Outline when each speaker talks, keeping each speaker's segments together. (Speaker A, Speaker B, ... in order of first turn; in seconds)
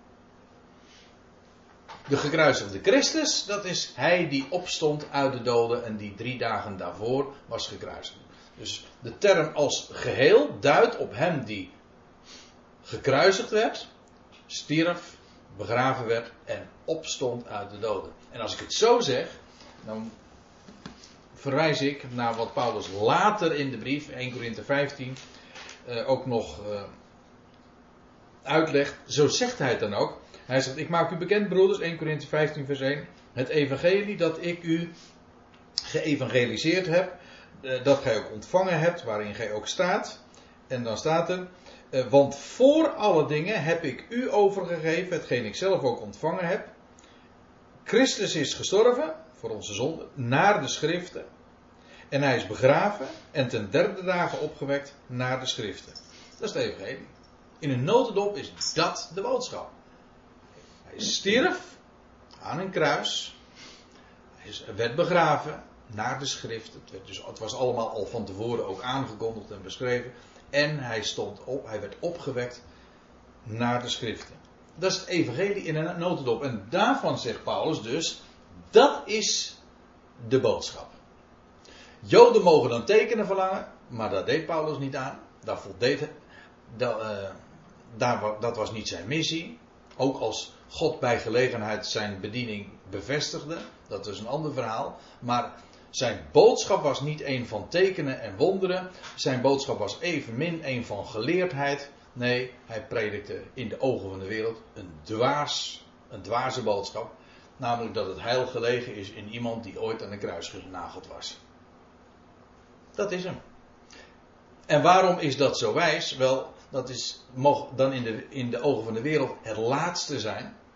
Speaker A: 2.1-11.7, 12.8-13.9, 14.5-20.1, 21.3-25.2, 25.8-26.9, 28.4-34.9, 35.9-46.7, 47.9-51.2, 52.1-57.1, 57.6-59.7, 60.9-61.8, 62.4-63.3, 64.4-72.6, 73.4-79.6, 80.2-81.0, 82.0-86.1, 86.7-87.4, 87.9-111.4, 112.9-113.4, 114.7-120.5